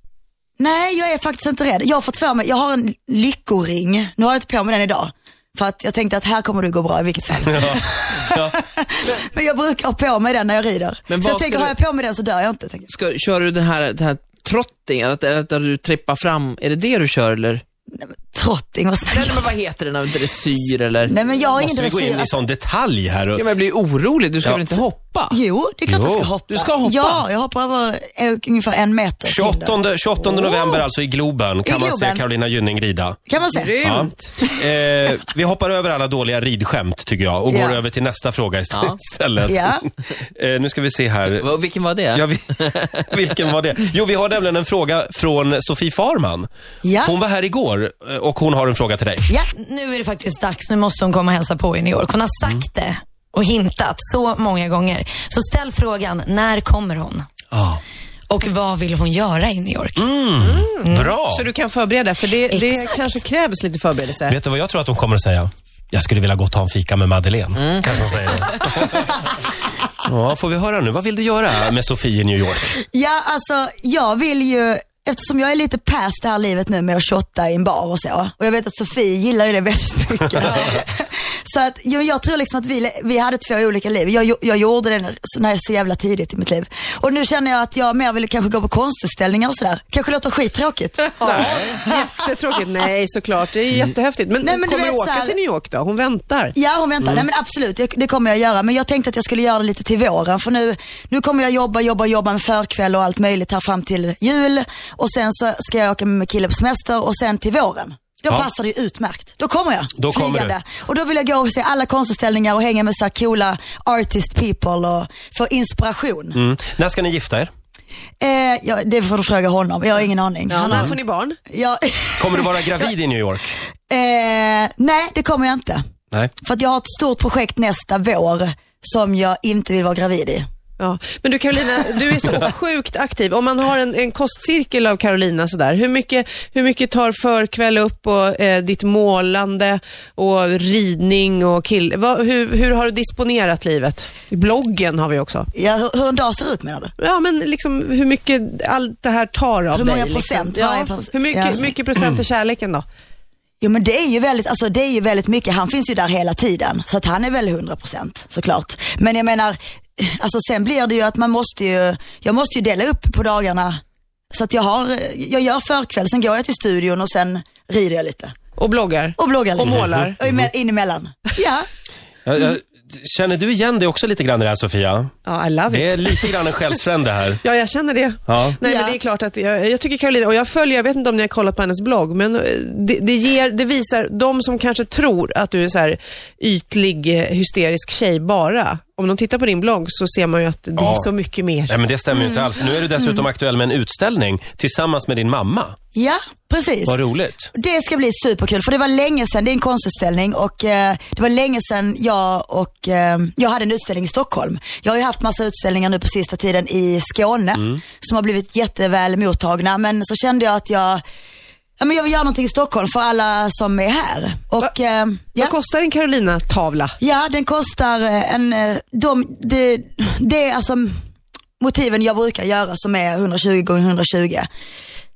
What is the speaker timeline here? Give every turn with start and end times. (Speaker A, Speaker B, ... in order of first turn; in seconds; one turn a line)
Speaker A: 0.6-12.9
Speaker B: 7.5-8.6
Speaker C: 11.1-11.7
Speaker C: 12.9-17.6
Speaker A: 17.9-19.5
Speaker C: 19.1-21.1
Speaker A: 21.0-22.3
Speaker B: 21.6-23.5
Speaker C: 23.4-25.4
Speaker B: 24.4-24.8
Speaker A: 25.3-29.8
Speaker B: 25.9-26.3
Speaker C: 26.5-27.2
Speaker B: 29.2-33.2
Speaker D: 30.3-30.8
Speaker A: 31.6-32.2
Speaker A: 33.3-33.8
Speaker D: 33.5-34.3
Speaker B: 33.8-39.8
Speaker A: 37.5-37.8
Speaker C: 38.7-39.0
Speaker A: 39.5-39.9
Speaker B: 40.4-41.5
Speaker C: 41.4-42.9
Speaker B: 42.1-46.5
Speaker A: 46.8-47.1
Speaker B: 47.0-49.2
Speaker E: 49.6-57.3
Speaker B: 57.5-57.8
Speaker E: 58.3-60.1
Speaker B: 60.0-61.5
Speaker D: 60.4-64.4
Speaker E: 60.9-61.2
Speaker E: 62.5-63.2
Speaker B: 64.2-69.2
Speaker C: 67.6-68.0
Speaker B: 70.0-72.8
Speaker A: 72.9-92.1
Speaker D: 91.2-96.6
Speaker A: 94.4-95.4
Speaker A: 96.5-116.4
Speaker B: 110.0-110.6
Speaker B: 116.3-117.5
Speaker A: 118.2-121.0
Speaker D: 120.5-121.4
Speaker B: 120.7-120.9
Speaker A: 121.5-122.9
Speaker B: 122.2-123.5
Speaker A: 123.9-125.8
Speaker A: 126.4-130.5
Speaker D: 130.8-145.5
Speaker A: 145.5-146.9
Speaker D: 147.0-152.8
Speaker A: 149.7-151.7
Speaker A: 153.6-163.8
Speaker A: 164.3-168.3
Speaker D: 168.6-170.2
Speaker A: 169.2-171.7
Speaker B: 169.7-170.5
Speaker B: 172.2-175.1
Speaker D: 175.2-176.5
Speaker B: 175.7-177.4
Speaker D: 177.4-191.8
Speaker B: 178.3-178.6
Speaker A: 178.6-179.0
Speaker B: 190.8-191.1
Speaker B: 191.7-195.8
Speaker A: 192.1-193.2
Speaker A: 195.9-197.0
Speaker B: 196.9-197.5
Speaker A: 197.5-211.0
Speaker A: 211.8-215.5
Speaker D: 215.3-217.0
Speaker A: 217.0-220.9
Speaker A: 221.6-224.5